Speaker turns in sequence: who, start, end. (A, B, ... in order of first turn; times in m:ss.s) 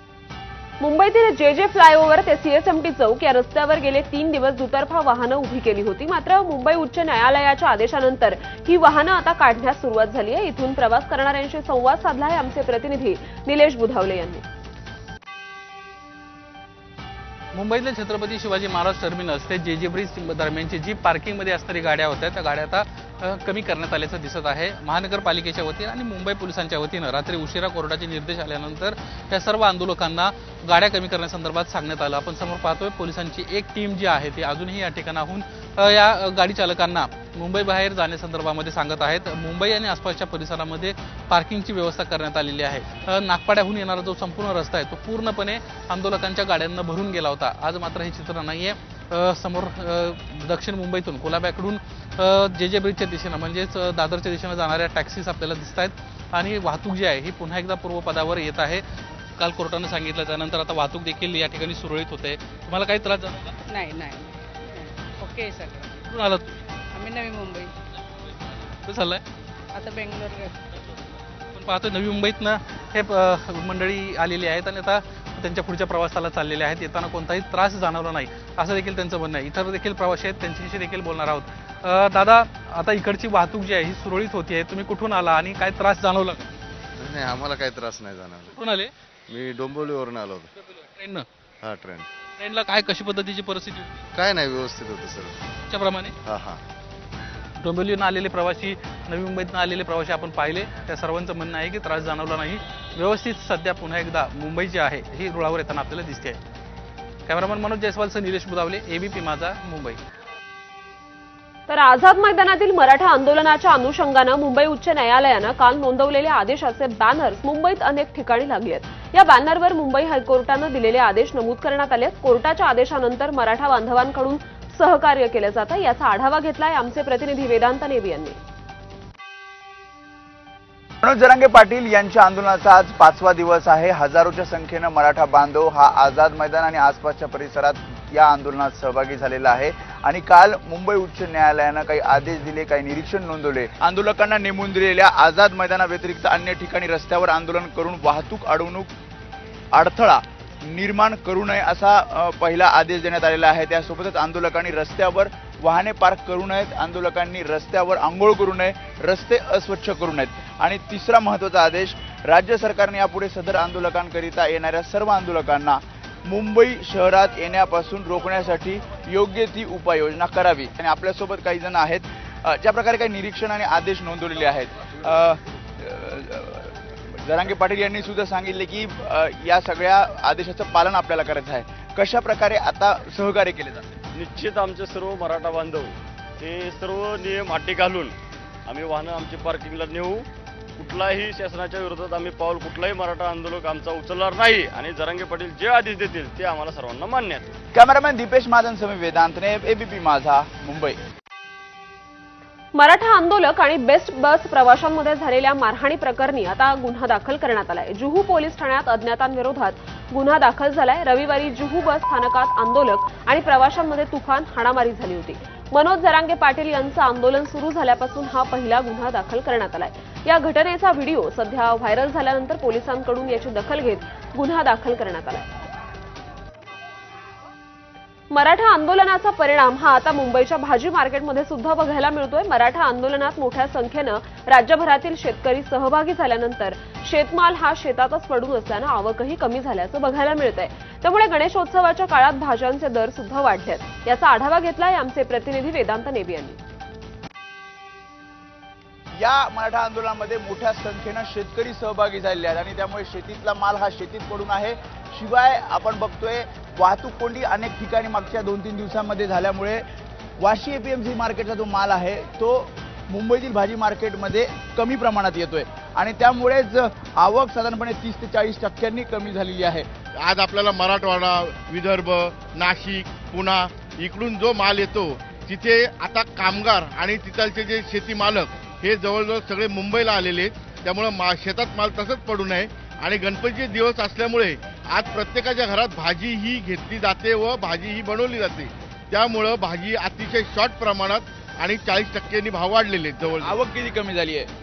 0:00.8-0:14.4 A
0:17.5-0:58.8 B
0:59.4-1:03.5 B
1:03.7-1:06.0 C
1:06.1-1:06.6 B
1:06.9-1:07.7 C
1:08.8-1:09.2 B
1:09.7-1:10.5 C
1:11.5-1:26.5 B
1:27.0-1:28.6 D
1:28.5-1:28.9 B
1:29.3-1:30.5 D
1:31.0-1:31.3 B
1:31.6-1:32.1 D
1:32.4-1:34.0 B
1:34.1-1:35.4 D
1:35.7-1:36.2 B
1:36.3-1:36.6 D
1:37.6-1:46.4 B
1:47.3-1:50.0 B
1:51.7-2:08.4 A
2:11.0-2:28.9 E
2:29.7-3:04.0 E
3:04.1-3:08.2 F
3:08.7-3:17.6 F
3:17.7-3:21.0 E
3:22.8-3:45.5 A
3:48.3-4:06.6 A
4:09.2-4:19.8 E
4:20.4-4:29.9 E
4:30.2-4:53.6 G
4:53.4-4:54.5 E